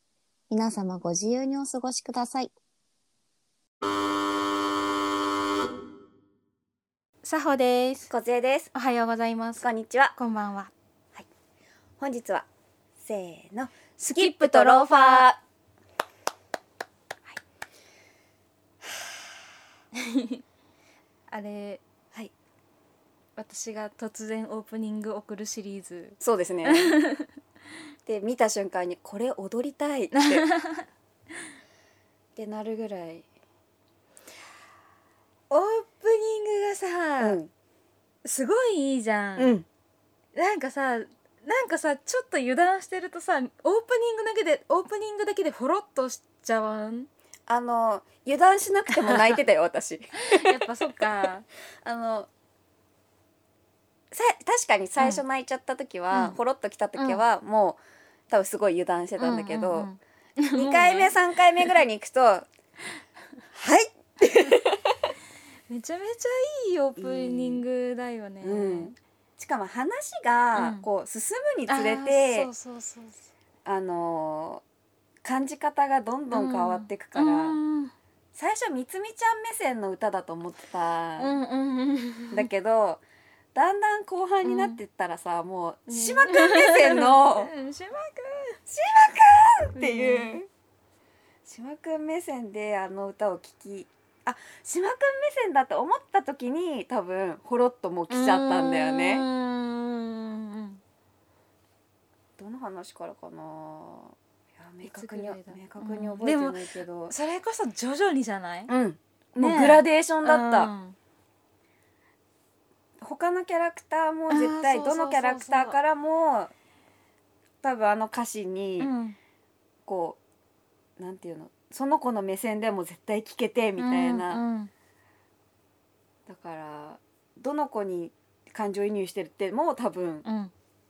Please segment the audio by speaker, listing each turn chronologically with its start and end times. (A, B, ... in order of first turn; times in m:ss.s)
0:00.5-0:02.5 A
0:07.2-0:08.1 B
0:08.1-0:08.7 C
0:08.7-0:09.6 B
0:09.6-0:10.2 C
0:10.2-0:10.7 B
0:12.0-0:12.4 C
0:13.0-0:15.4 C
0:14.0-0:15.3 B
0:19.9-0:20.4 B
0:21.3-0:21.8 B
0:23.4-0:27.3 B
0:26.2-0:27.0 C
0:28.0-0:30.4 C
0:30.1-0:30.9 B
0:32.4-0:33.3 C
0:35.5-0:37.4 B
0:37.2-0:37.5 C
0:38.2-0:39.5 B
0:39.4-0:39.6 C
0:40.3-0:47.1 B
0:47.5-0:51.2 C
0:48.9-0:49.4 B
0:50.2-0:51.4 B
0:51.8-0:52.3 C
0:54.1-0:59.9 C
0:56.1-0:56.4 B
0:57.0-0:57.2 B
0:59.2-1:01.7 B
1:00.5-1:02.4 C
1:03.5-1:05.0 C
1:05.7-1:08.9 B
1:07.0-1:07.6 C
1:08.4-1:12.5 C
1:10.6-1:10.8 B
1:11.7-1:13.2 B
1:13.6-1:14.6 C
1:15.2-1:17.6 C
1:16.3-1:17.9 B
1:18.3-1:21.3 C
1:21.2-1:22.5 B
1:22.3-1:23.0 C
1:23.5-1:27.5 C
1:24.4-1:24.8 B
1:25.9-1:28.6 B
1:28.7-1:30.5 C
1:29.8-1:30.4 B
1:31.4-1:39.2 C
1:38.1-1:40.8 B
1:42.4-1:47.1 C
1:44.8-1:48.7 B
1:48.7-1:50.7 C
1:49.4-1:51.0 B
1:53.0-1:56.5 C
1:54.3-1:55.8 B
1:57.6-1:58.9 C
1:58.8-1:59.2 B
1:59.8-2:00.2 C
2:01.0-2:04.4 C
2:03.8-2:04.7 B
2:06.3-2:10.2 C
2:10.2-2:10.5 B